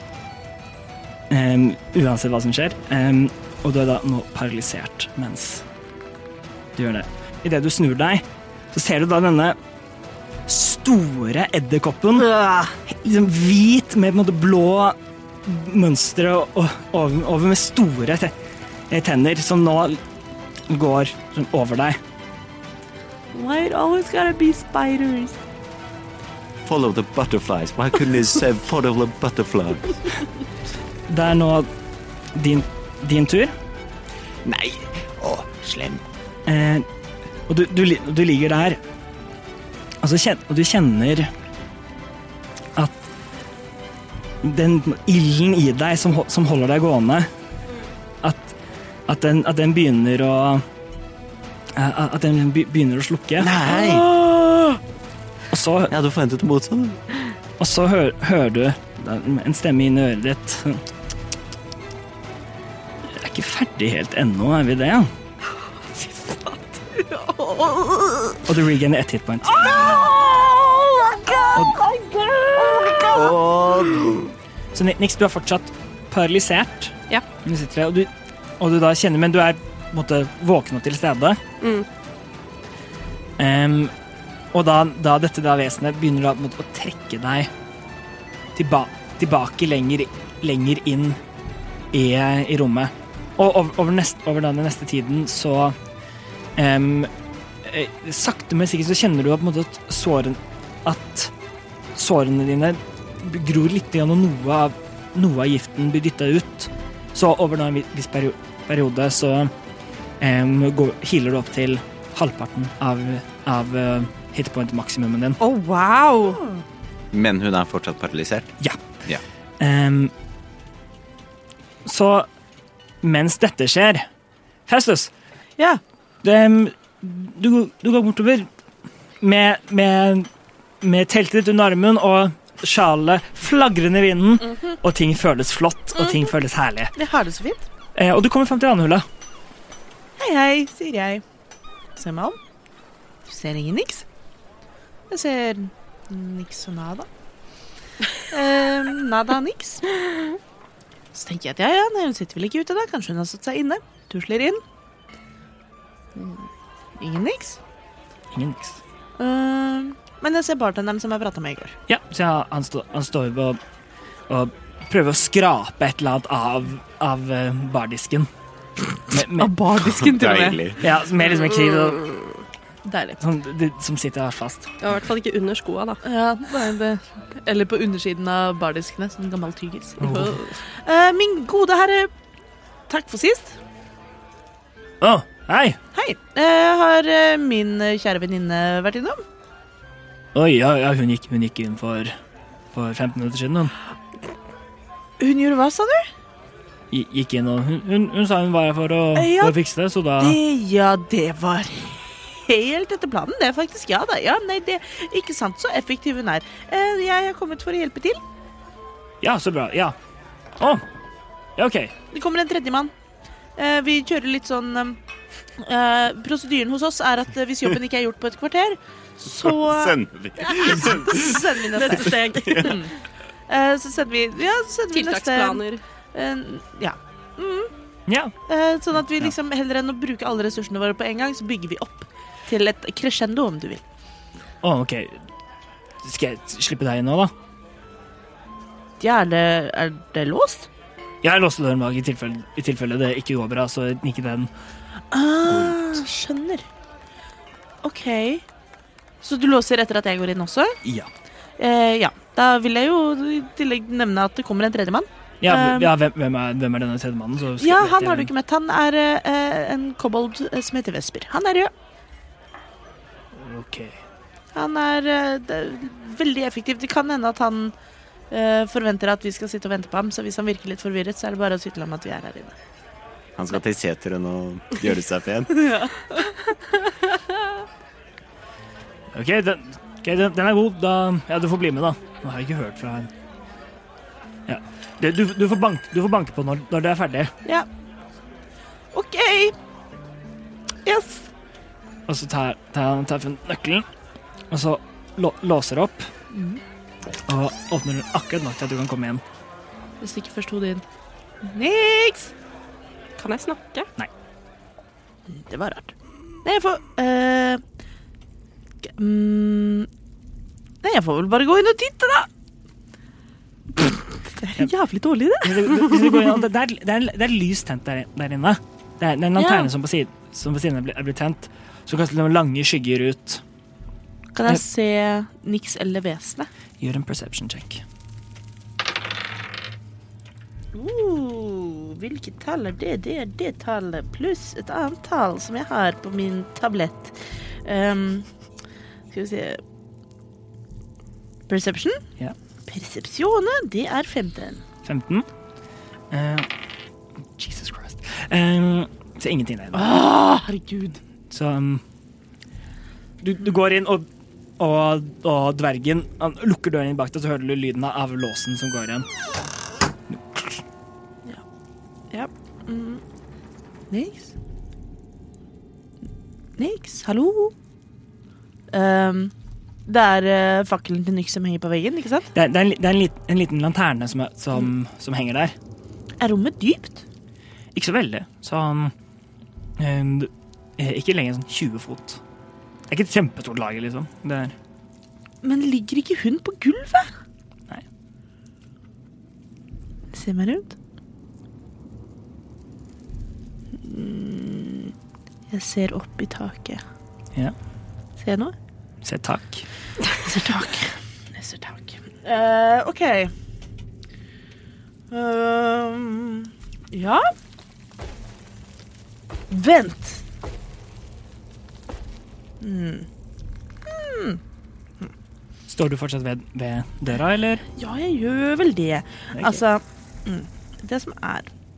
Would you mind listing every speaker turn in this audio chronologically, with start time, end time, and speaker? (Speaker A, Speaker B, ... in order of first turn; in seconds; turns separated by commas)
Speaker A: 1.3-5.7, Speaker A: 6.8-9.6, Speaker A: 10.5-18.3, Speaker A: 18.9-20.0, Speaker A: 20.7-22.0, Speaker B: 23.3-25.4, Speaker C: 26.6-29.9, Speaker A: 31.1-31.7, Speaker A: 32.3-33.5, Speaker C: 34.5-36.0, Speaker A: 36.5-36.9, Speaker A: 37.5-38.8, Speaker A: 40.0-41.3, Speaker A: 44.4-47.3, Speaker A: 48.2-48.6, Speaker A: 49.1-50.6, Speaker A: 51.8-53.5, Speaker C: 53.4-54.1, Speaker B: 53.7-54.8, Speaker A: 55.5-55.9, Speaker C: 55.9-57.0, Speaker A: 57.6-60.8, Speaker A: 63.1-65.1, Speaker D: 66.0-66.8, Speaker B: 66.9-68.0, Speaker A: 68.5-69.7, Speaker B: 69.5-73.5, Speaker C: 73.1-74.3, Speaker A: 74.7-81.4, Speaker D: 81.6-81.9, Speaker A: 83.4-83.9, Speaker A: 84.5-87.5, Speaker A: 88.5-91.2, Speaker A: 91.9-95.8, Speaker A: 96.6-97.1, Speaker A: 97.6-101.3, Speaker A: 102.0-109.5, Speaker A: 110.2-115.4, Speaker D: 115.4-116.4, Speaker C: 117.1-119.2, Speaker A: 119.6-120.1, Speaker A: 121.8-122.3, Speaker A: 123.0-124.1, Speaker A: 124.7-125.1, Speaker A: 126.2-128.5, Speaker A: 129.2-130.3, Speaker A: 130.8-136.9, Speaker B: 137.0-137.7, Speaker A: 137.9-139.1, Speaker B: 140.2-141.2, Speaker B: 142.0-142.4, Speaker B: 143.3-144.1, Speaker B: 145.1-147.1, Speaker B: 148.3-149.9, Speaker B: 151.1-154.6, Speaker B: 156.2-156.5, Speaker B: 157.0-157.6, Speaker A: 158.3-158.8, Speaker B: 159.2-161.8, Speaker A: 161.9-163.6, Speaker A: 164.3-168.3, Speaker A: 169.1-169.5, Speaker B: 169.4-170.7, Speaker C: 169.8-170.8, Speaker A: 170.8-172.1, Speaker B: 172.8-173.2, Speaker A: 173.2-174.7, Speaker D: 174.8-176.0, Speaker B: 176.0-182.1, Speaker A: 180.0-180.4, Speaker B: 182.9-183.6, Speaker A: 185.0-185.8, Speaker B: 185.9-189.2, Speaker A: 190.3-192.1, Speaker A: 192.7-193.7, Speaker B: 195.2-196.1, Speaker A: 196.9-200.4, Speaker B: 199.2-199.6, Speaker B: 200.2-208.2, Speaker A: 209.2-209.9, Speaker A: 210.6-210.8, Speaker A: 211.6-211.9, Speaker B: 212.1-212.9, Speaker B: 213.6-215.0, Speaker B: 215.6-220.0, Speaker C: 219.4-221.5, Speaker B: 220.5-222.9, Speaker D: 221.8-222.8, Speaker C: 222.1-222.7, Speaker B: 223.5-227.7, Speaker D: 224.9-225.8, Speaker A: 228.1-228.3, Speaker B: 228.5-233.8, Speaker A: 234.6-235.2, Speaker A: 236.0-237.3, Speaker B: 239.0-240.7, Speaker A: 241.2-244.5, Speaker B: 245.1-246.6, Speaker A: 245.5-246.0, Speaker B: 247.8-248.4, Speaker B: 249.2-250.8, Speaker A: 250.8-251.1, Speaker B: 251.6-255.9, Speaker A: 255.4-258.3, Speaker B: 257.6-261.7, Speaker A: 263.3-264.0, Speaker B: 264.5-267.8, Speaker B: 268.3-272.6, Speaker C: 273.4-275.7, Speaker B: 275.6-276.3, Speaker A: 279.1-283.1, Speaker A: 284.5-287.3, Speaker B: 288.9-289.6, Speaker B: 290.9-291.3, Speaker A: 292.1-293.9, Speaker A: 294.5-296.1, Speaker B: 296.3-296.6, Speaker A: 297.3-299.2, Speaker B: 300.0-300.9, Speaker B: 301.4-302.3, Speaker D: 303.2-303.9, Speaker B: 305.3-305.9, Speaker B: 306.4-307.6, Speaker B: 308.8-309.9, Speaker B: 310.8-312.3, Speaker B: 313.8-316.3, Speaker A: 315.4-323.4, Speaker B: 319.4-319.7, Speaker B: 324.4-326.5, Speaker A: 326.8-327.8, Speaker B: 330.7-338.3, Speaker B: 339.1-339.6, Speaker B: 341.5-342.0, Speaker B: 342.7-344.6, Speaker A: 344.9-345.3, Speaker A: 346.1-346.5, Speaker A: 347.4-350.0, Speaker B: 349.7-351.0, Speaker A: 351.3-351.8, Speaker A: 353.2-354.1, Speaker A: 354.6-359.1, Speaker A: 360.1-360.6, Speaker B: 362.1-363.0, Speaker B: 363.9-364.3, Speaker B: 366.6-367.5, Speaker B: 368.7-369.3, Speaker B: 369.9-372.3, Speaker A: 372.3-375.6, Speaker B: 376.2-377.1, Speaker A: 377.8-378.9, Speaker A: 379.8-382.2, Speaker A: 382.9-384.6, Speaker B: 385.4-387.1, Speaker B: 390.1-390.8, Speaker B: 393.8-394.9, Speaker B: 395.5-396.8, Speaker B: 398.2-398.6, Speaker A: 399.0-399.7, Speaker B: 400.2-403.3, Speaker B: 405.1-407.3, Speaker B: 409.5-410.2, Speaker B: 412.6-413.1, Speaker B: 413.9-414.4, Speaker A: 415.7-417.6, Speaker B: 417.8-421.5, Speaker A: 419.4-419.6